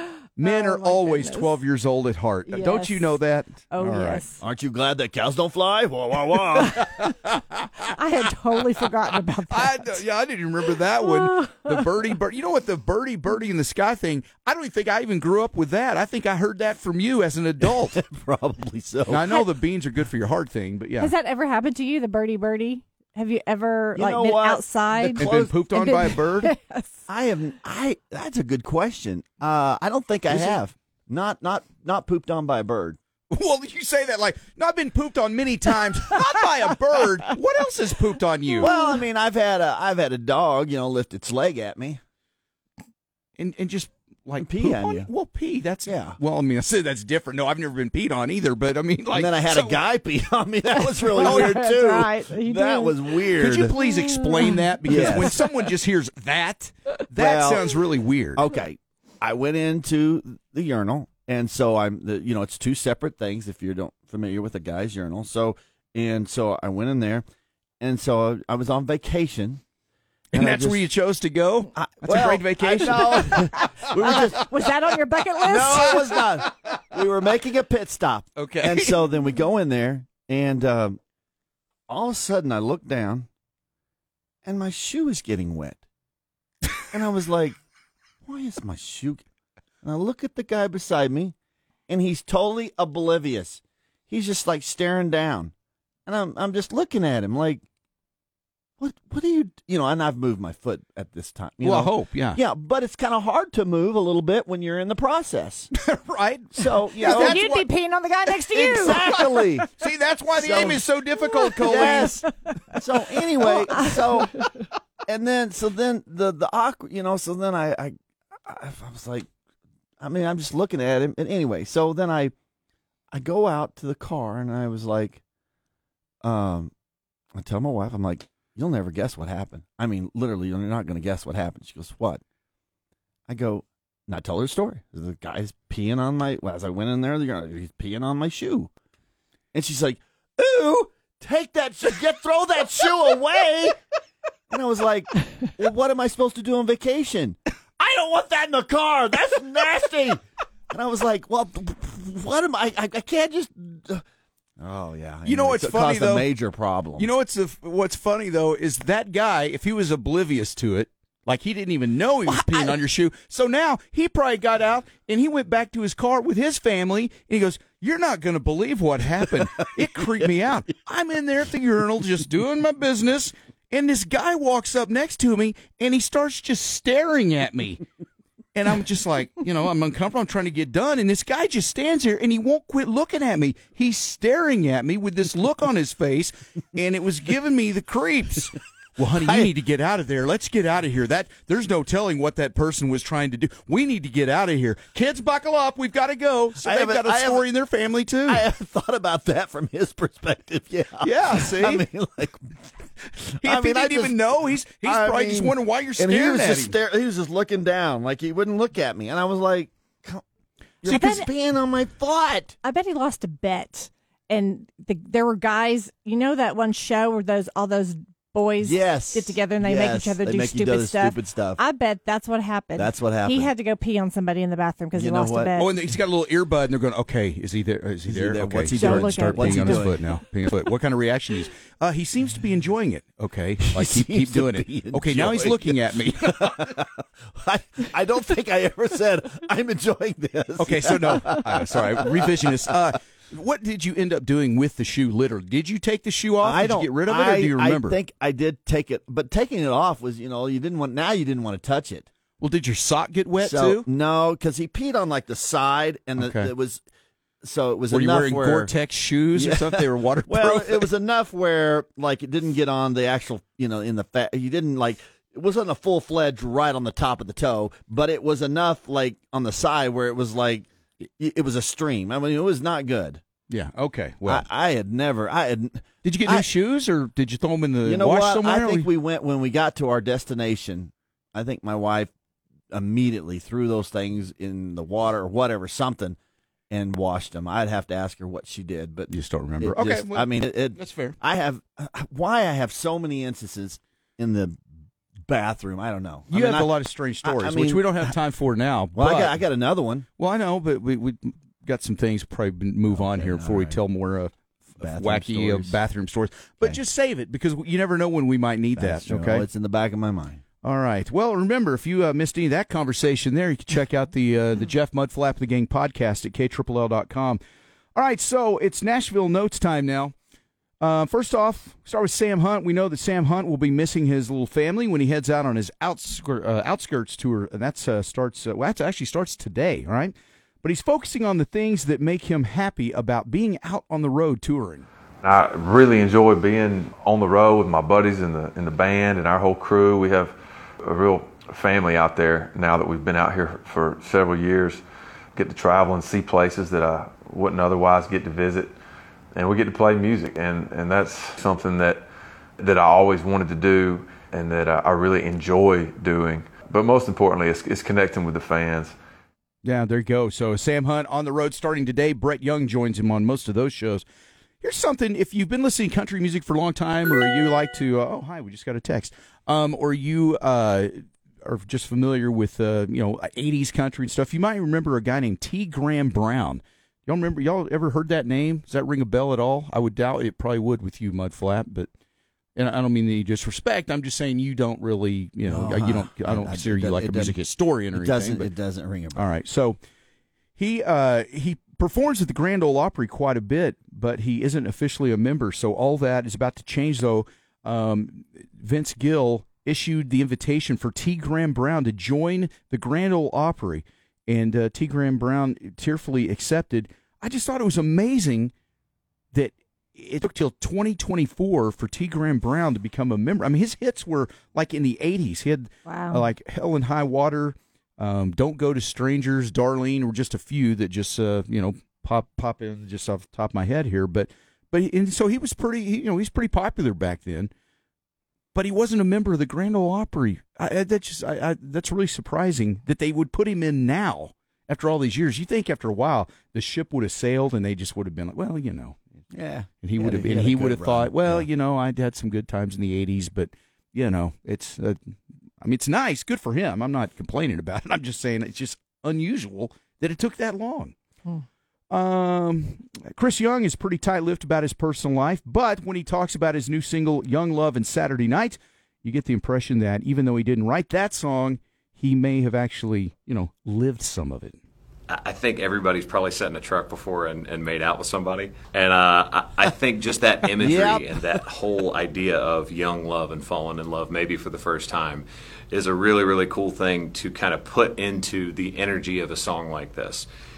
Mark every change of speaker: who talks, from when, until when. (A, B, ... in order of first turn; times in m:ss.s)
0:00.4-0:04.2 A
0:00.4-0:01.5 B
0:02.5-0:03.2 B
0:03.7-0:04.4 B
0:04.4-0:06.9 C
0:06.9-0:07.2 A
0:07.9-0:10.0 B
0:09.5-0:18.0 A
0:11.0-0:11.9 B
0:17.6-0:19.4 C
0:19.1-0:21.1 A
0:21.0-0:27.0 B
0:23.9-0:25.5 C
0:25.2-0:26.5 A
0:27.1-0:33.0 C
0:33.3-0:38.7 A
0:38.6-0:39.0 B
0:38.6-0:42.0 C
0:43.4-0:49.8 A
0:44.4-0:45.1 C
0:45.8-0:46.2 C
0:49.1-0:53.7 C
0:50.8-0:55.4 B
0:51.2-0:51.7 A
0:53.4-0:58.5 A
0:54.8-0:55.4 C
0:57.2-0:57.7 C
0:58.3-1:07.2 C
1:07.8-1:09.6 C
1:10.3-1:10.8 C
1:10.3-1:14.4 A
1:11.7-1:14.5 C
1:13.8-1:16.2 B
1:15.4-1:21.0 C
1:18.4-1:19.1 A
1:21.9-1:23.3 C
1:24.4-1:25.8 C
1:26.9-1:27.6 C
1:28.2-1:29.2 C
1:29.8-1:31.3 C
1:31.9-1:35.5 C
1:36.0-1:37.6 C
1:38.8-1:45.7 C
1:41.6-1:42.4 A
1:45.7-1:47.7 A
1:46.5-1:47.4 C
1:47.0-1:49.6 B
1:48.5-1:49.7 C
1:49.8-1:52.2 A
1:50.3-1:50.8 C
1:51.3-1:54.5 B
1:51.6-1:54.4 C
1:55.0-1:57.9 C
1:58.4-1:59.3 C
2:00.0-2:02.3 C
2:03.1-2:05.2 C
2:06.2-2:06.7 C
2:07.3-2:12.2 C
2:13.3-2:18.7 C
2:19.5-2:23.8 C
2:24.5-2:34.0 C
2:34.6-2:37.1 C
2:35.2-2:36.3 A
2:37.0-2:57.8 A
2:42.3-2:42.7 C
2:49.3-2:50.2 C
2:58.5-3:18.4 A
3:09.2-3:09.5 C
3:16.6-3:17.4 C
3:18.3-3:22.6 C
3:21.0-3:21.8 A
3:23.3-3:30.2 C
3:23.4-3:26.8 A
3:30.8-3:32.6 C
3:30.8-3:31.3 B
3:32.6-3:45.8 B
3:38.6-3:41.6 C
3:42.8-3:43.5 C
3:44.9-3:45.5 C
3:45.6-3:56.6 A
3:48.1-3:50.0 C
3:48.7-3:49.9 B
3:53.6-4:02.7 C
4:00.6-4:08.0 A
4:06.4-4:12.1 C
4:12.4-4:13.9 A
4:13.4-4:16.8 C
4:16.2-4:16.5 A
4:17.4-4:18.7 C
4:17.9-4:20.9 A
4:19.3-4:33.2 C
4:33.5-4:34.4 A
4:34.2-4:36.5 C
4:36.0-4:38.9 A
4:37.8-4:42.1 C
4:42.7-4:46.2 C
4:46.7-4:54.6 C
4:49.1-4:51.2 A
4:55.3-4:58.1 C
4:56.3-4:59.4 A
4:58.9-5:00.0 C
5:00.2-5:09.5 A
5:02.9-5:03.8 C
5:04.8-5:05.8 C
5:08.8-5:10.4 C
5:10.6-5:17.4 A
5:17.9-5:20.1 A
5:20.8-5:34.9 A
5:35.2-5:44.8 D
5:45.4-5:48.7 D
5:49.3-5:52.0 D
5:52.6-5:59.0 D
5:59.6-6:04.0 A
6:04.6-6:21.9 A
6:22.6-6:28.5 A
6:25.4-6:29.3 C
6:29.1-6:29.8 A
6:30.6-6:48.5 A
6:49.3-7:07.5 A
6:55.8-6:56.3 B
7:08.5-7:19.0 A
7:19.3-7:21.5 C
7:19.8-7:30.9 A
7:31.9-7:44.6 A
7:45.1-8:00.3 E
7:50.5-7:51.2 C